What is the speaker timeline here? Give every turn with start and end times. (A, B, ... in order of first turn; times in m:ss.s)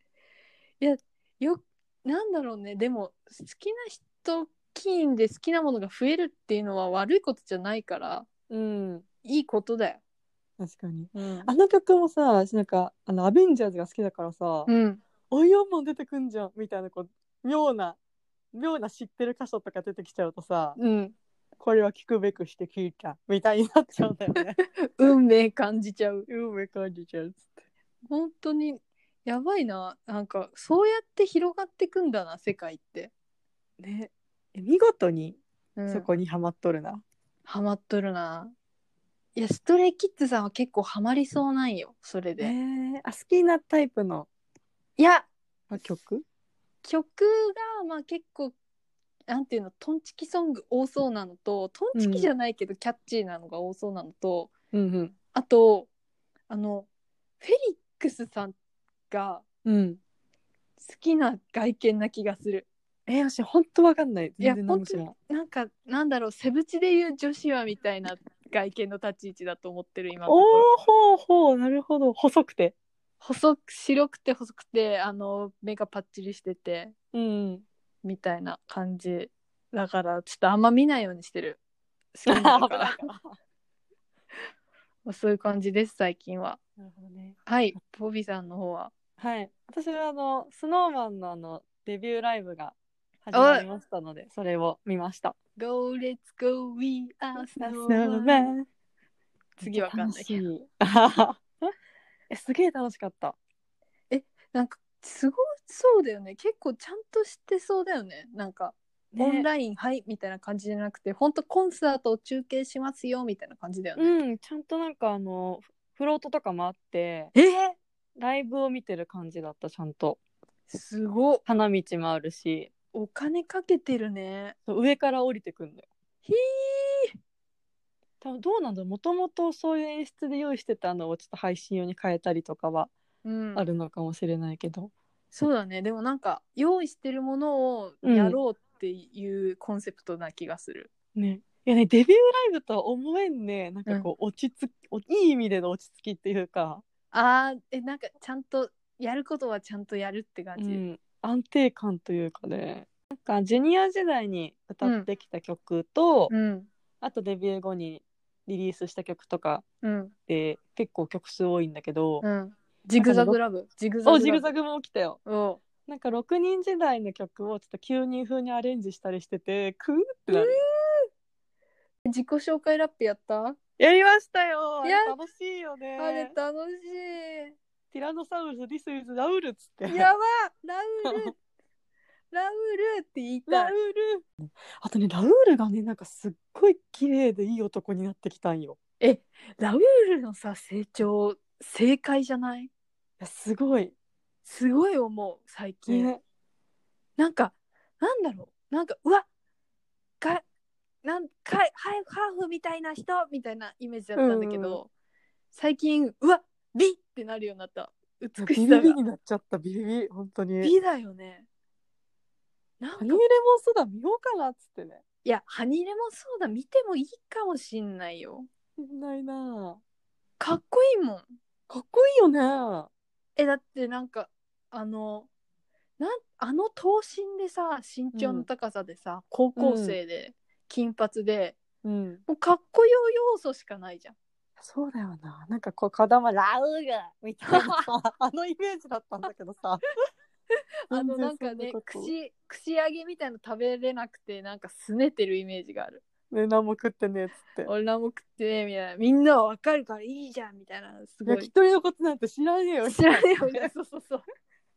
0:00.8-0:08.3 A
0:08.5-0:09.0 B
0:09.2-0:10.0 A
0:10.6-0:14.7 B
0:11.1-0:11.5 A
0:14.7-0:15.0 A
0:15.3-0:18.0 B
0:18.5-0:20.8 B
0:20.8-0:21.2 A
0:21.6-0:25.1 B
0:24.9-0:26.3 A
0:26.3-0:27.6 B
0:28.1-0:33.1 A
0:33.8-0:37.0 B
0:35.8-0:36.1 A
0:37.5-0:38.5 A
0:39.3-0:42.5 A
0:42.4-0:44.3 B
0:45.0-0:45.3 A
0:45.7-0:46.2 B
0:46.8-0:48.5 A
0:49.3-0:54.5 A
0:51.9-0:52.3 B
0:54.7-0:55.1 B
0:55.3-0:55.9 A
0:56.5-0:56.9 A
0:57.4-0:58.6 A
0:59.1-0:59.4 A
0:59.6-1:00.0 B
1:00.8-1:02.7 A
1:03.1-1:05.1 B
1:04.4-1:10.7 A
1:10.2-1:12.7 B
1:13.2-1:16.9 A
1:17.1-1:17.6 B
1:18.0-1:21.6 A
1:22.1-1:23.0 A
1:22.3-1:23.3 B
1:25.0-1:26.6 A
1:26.8-1:27.4 B
1:27.4-1:28.9 A
1:29.2-1:35.4 B
1:33.3-1:33.6 A
1:35.6-1:38.5 A
1:37.4-1:38.7 B
1:39.6-1:40.4 A
1:39.6-1:41.4 B
1:42.3-1:43.4 B
1:44.1-1:54.2 A
1:49.1-1:49.5 B
1:54.0-1:57.3 B
1:57.3-1:57.8 A
1:58.2-2:00.2 B
2:00.7-2:01.4 A
2:01.4-2:02.7 B
2:02.9-2:04.6 A
2:04.6-2:05.8 B
2:06.2-2:07.1 A
2:08.2-2:12.9 B
2:13.2-2:13.6 A
2:13.5-2:14.9 B
2:15.3-2:20.9 A
2:18.0-2:18.4 B
2:21.1-2:26.8 B
2:27.1-2:30.8 A
2:30.6-2:36.3 B
2:34.8-2:35.1 A
2:36.3-2:36.7 A
2:37.0-2:39.6 B
2:39.8-2:40.1 A
2:40.3-2:42.2 B
2:42.2-2:44.5 A
2:43.0-2:43.4 B
2:44.0-2:45.2 B
2:45.2-2:45.6 A
2:45.8-2:50.6 B
2:50.3-2:51.1 A
2:52.0-2:53.6 A
2:53.8-2:56.3 B
2:54.8-2:55.2 A
2:56.0-2:57.6 A
2:57.9-3:00.1 B
2:59.9-3:01.3 A
3:01.0-3:01.3 B
3:02.3-3:03.7 A
3:03.5-3:08.8 B
3:09.0-3:12.7 A
3:13.2-3:13.9 B
3:14.4-3:16.1 A
3:15.9-3:16.2 B
3:17.2-3:19.2 A
3:21.0-3:24.9 A
3:24.1-3:24.8 B
3:25.5-3:29.0 A
3:28.4-3:30.7 B
3:30.6-3:31.4 A
3:32.8-3:33.2 A
3:33.0-3:35.0 B
3:35.2-3:38.5 A
3:38.8-3:39.8 B
3:40.4-3:41.2 A
3:41.7-3:42.9 B
3:43.4-3:45.3 A
3:46.0-3:51.6 A
3:48.1-3:48.5 B
3:49.6-3:50.0 B
3:51.8-3:52.2 B
3:52.3-3:54.1 A
3:54.6-3:59.8 B
3:57.5-3:57.8 A
4:00.9-4:06.0 A
4:00.9-4:02.1 B
4:06.3-4:07.7 B
4:07.6-4:11.5 A
4:11.2-4:13.7 B
4:12.8-4:14.2 A